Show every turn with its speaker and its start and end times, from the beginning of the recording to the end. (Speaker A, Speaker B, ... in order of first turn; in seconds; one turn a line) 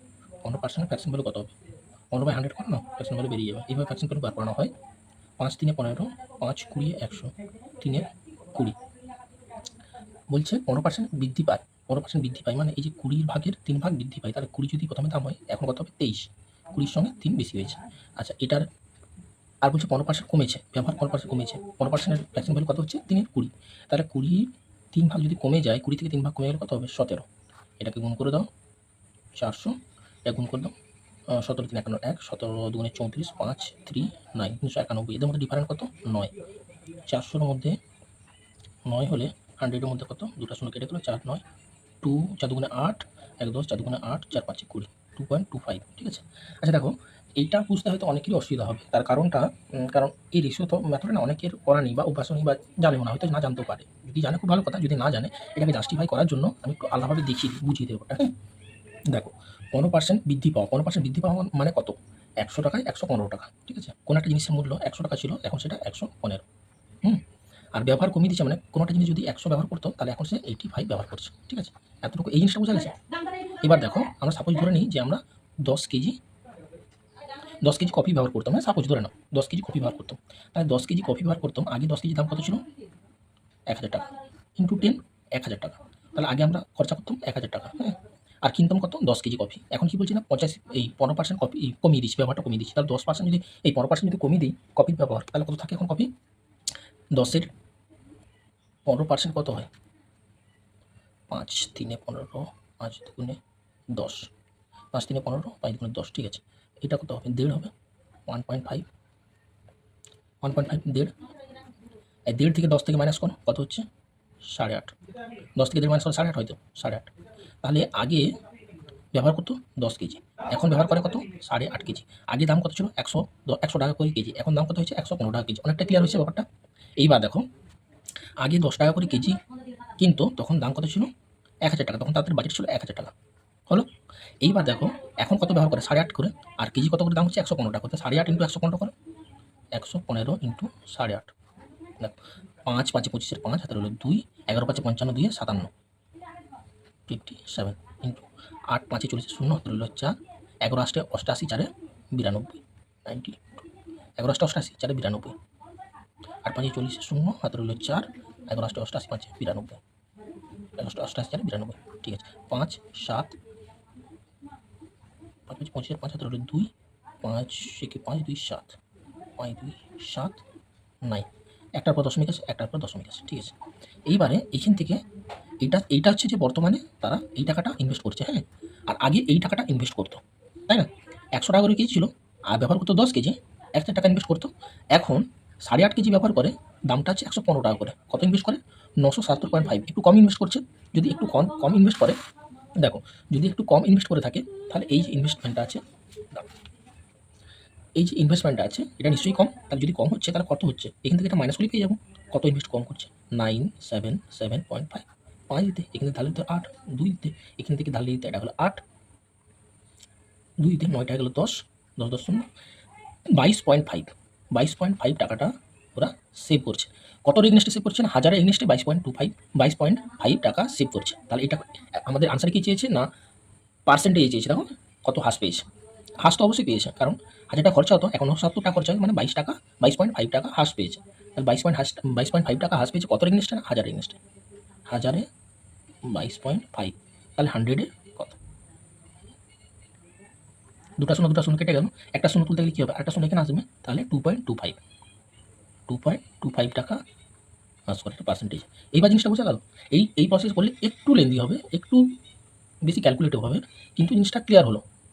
Speaker A: 0.4-1.5
Speaker A: 2.1-4.7
Speaker A: 5.4-8.8
Speaker A: 10.3-18.7
Speaker A: 19.6-27.2
Speaker A: 27.8-28.5
Speaker A: 29.4-30.7
Speaker A: 31.3-36.4
Speaker A: 37.0-37.8
Speaker A: 38.9-41.4
Speaker A: 42.0-58.3
Speaker A: 59.1-66.4
Speaker A: 67.0-76.2
Speaker A: 77.6-82.7
Speaker A: 83.7-96.1
Speaker A: 97.1-97.5
Speaker A: 98.9-99.7
Speaker A: 101.3-103.4
Speaker A: 103.9-104.3
Speaker A: 104.9-107.7
Speaker A: 108.3-108.8
Speaker A: 110.4-111.2
Speaker A: 112.3-113.9
Speaker A: 114.5-117.1
Speaker A: 117.6-118.4
Speaker A: 119.1-126.4
Speaker A: 127.0-127.5
Speaker A: 128.4-131.1
Speaker A: 131.6-133.1
Speaker A: 134.4-138.9
Speaker A: 139.7-141.3
Speaker A: 142.0-145.7
Speaker A: 147.1-153.4
Speaker A: 154.2-155.4
Speaker A: 156.4-159.8
Speaker A: 160.8-163.4
Speaker A: 165.5-168.8
Speaker A: 169.4-170.4
Speaker A: 171.0-173.5
Speaker A: 174.1-175.0
Speaker A: 175.6-192.2
Speaker A: 192.8-196.4
Speaker A: 198.0-208.8
Speaker A: 210.6-212.5
Speaker A: 213.3-223.1
Speaker A: 223.9-225.7
Speaker A: 226.2-234.2
Speaker A: 234.9-235.3
Speaker A: 236.1-238.4
Speaker A: 241.0-244.8
Speaker A: 245.9-247.0
Speaker A: 247.9-252.1
Speaker A: 252.8-254.8